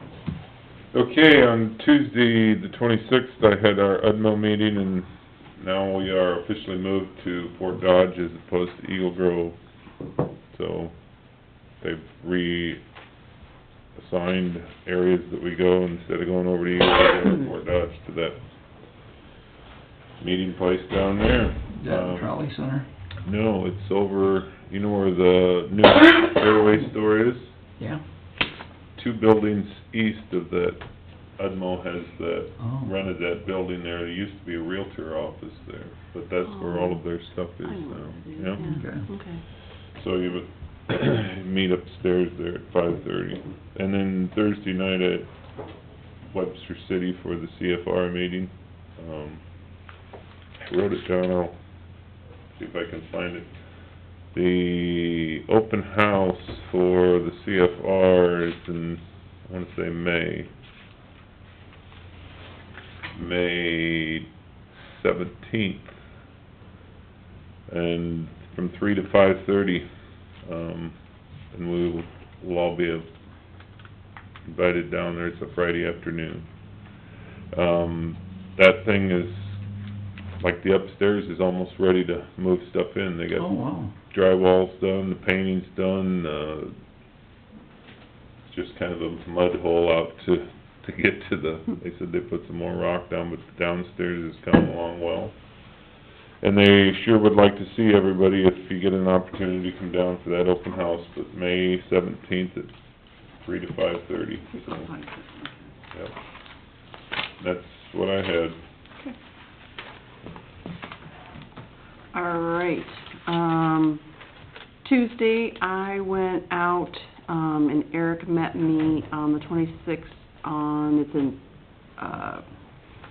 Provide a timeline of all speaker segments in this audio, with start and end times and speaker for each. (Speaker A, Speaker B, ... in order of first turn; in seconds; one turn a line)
Speaker A: 0.9-9.6
Speaker A: 10.5-10.9
Speaker A: 11.8-12.8
Speaker A: 13.9-18.4
Speaker A: 20.2-22.3
Speaker B: 21.7-22.9
Speaker A: 23.2-27.5
Speaker A: 28.9-30.8
Speaker A: 31.4-38.7
Speaker B: 32.6-32.9
Speaker C: 36.4-37.0
Speaker C: 37.6-39.4
Speaker B: 38.6-39.1
Speaker A: 39.6-45.3
Speaker A: 46.3-49.4
Speaker A: 50.6-51.5
Speaker A: 52.5-53.5
Speaker A: 54.3-60.5
Speaker A: 63.1-66.0
Speaker A: 67.7-69.9
Speaker A: 70.4-70.9
Speaker A: 71.5-73.1
Speaker A: 74.5-76.4
Speaker A: 77.5-79.6
Speaker A: 80.4-83.5
Speaker B: 83.4-83.9
Speaker A: 84.1-86.7
Speaker A: 88.5-95.3
Speaker A: 96.4-102.7
Speaker A: 103.4-104.9
Speaker C: 104.5-105.5
Speaker A: 107.4-108.6
Speaker C: 112.1-114.0
Speaker C: 114.8-121.4
Speaker C: 122.0-122.4